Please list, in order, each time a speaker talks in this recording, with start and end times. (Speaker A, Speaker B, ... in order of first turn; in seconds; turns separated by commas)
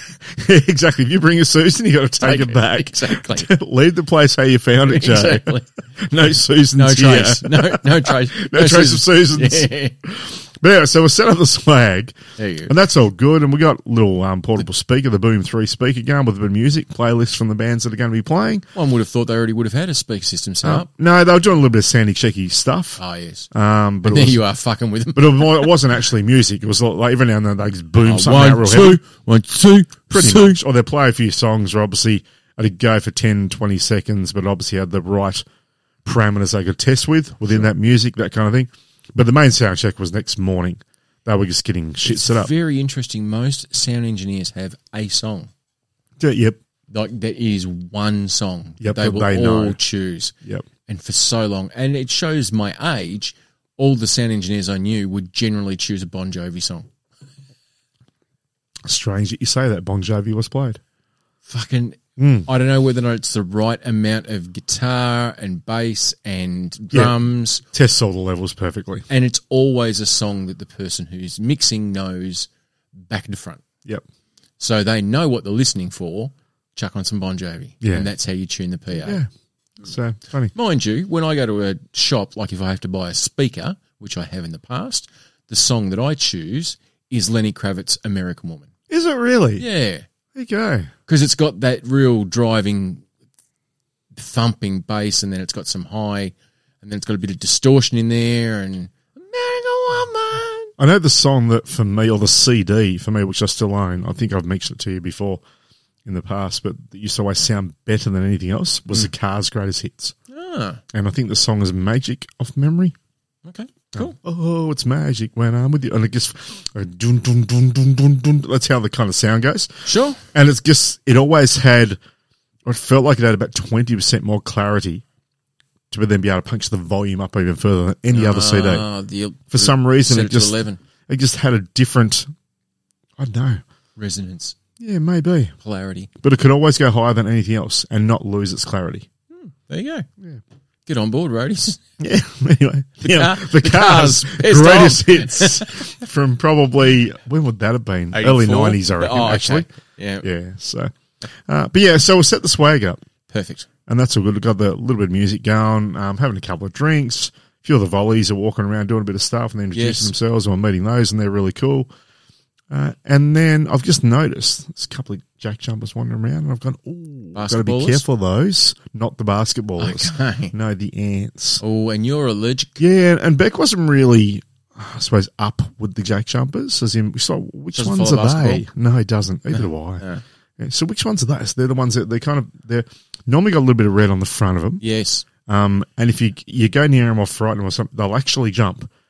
Speaker A: 0.3-12.2, Speaker B: 2.2-3.5, Speaker B: 4.8-5.7, Speaker B: 6.8-9.9, Speaker B: 12.4-12.7, Speaker A: 12.7-18.6, Speaker B: 18.7-20.9, Speaker A: 20.6-23.0, Speaker B: 23.0-23.5, Speaker A: 23.5-24.4, Speaker B: 24.0-25.7, Speaker A: 25.1-29.0, Speaker B: 28.0-30.6, Speaker A: 30.1-35.4, Speaker A: 36.0-42.5, Speaker B: 42.0-45.5, Speaker A: 46.2-46.6, Speaker B: 46.9-50.3, Speaker A: 48.8-49.8, Speaker B: 50.9-56.9, Speaker A: 58.9-60.8, Speaker B: 61.5-67.6, Speaker A: 62.2-62.5, Speaker A: 66.9-69.1, Speaker B: 69.1-72.5, Speaker B: 73.0-73.6, Speaker B: 74.6-79.2, Speaker A: 77.8-78.1, Speaker A: 79.0-79.3, Speaker A: 79.8-80.5, Speaker B: 80.5-88.7, Speaker A: 88.9-89.6, Speaker B: 89.6-90.0, Speaker A: 90.3-90.9, Speaker B: 91.1-93.0, Speaker B: 94.1-100.7, Speaker A: 100.8-105.4, Speaker A: 106.0-110.1, Speaker B: 110.3-110.8, Speaker A: 110.9-112.9, Speaker B: 113.5-114.2, Speaker A: 113.9-119.7, Speaker B: 119.8-120.2, Speaker A: 120.3-122.0, Speaker A: 122.6-125.0, Speaker A: 125.9-128.8, Speaker B: 128.1-130.8, Speaker A: 129.5-130.6, Speaker A: 131.1-132.3, Speaker A: 133.2-133.6, Speaker B: 133.9-134.6, Speaker A: 134.8-135.5, Speaker B: 135.6-136.1, Speaker A: 136.2-139.1, Speaker B: 139.3-140.1, Speaker B: 140.8-141.8, Speaker A: 142.0-149.7, Speaker B: 143.0-145.9, Speaker B: 148.1-150.3, Speaker A: 150.2-150.9, Speaker A: 151.4-153.0, Speaker B: 153.3-153.7, Speaker A: 153.9-161.9, Speaker B: 159.7-160.1, Speaker A: 162.7-171.6, Speaker B: 167.3-168.0, Speaker B: 169.8-170.5, Speaker B: 171.6-172.8, Speaker A: 172.8-180.0, Speaker B: 177.7-178.6, Speaker B: 179.5-180.2, Speaker A: 180.6-184.8, Speaker B: 184.8-185.2, Speaker A: 185.4-188.9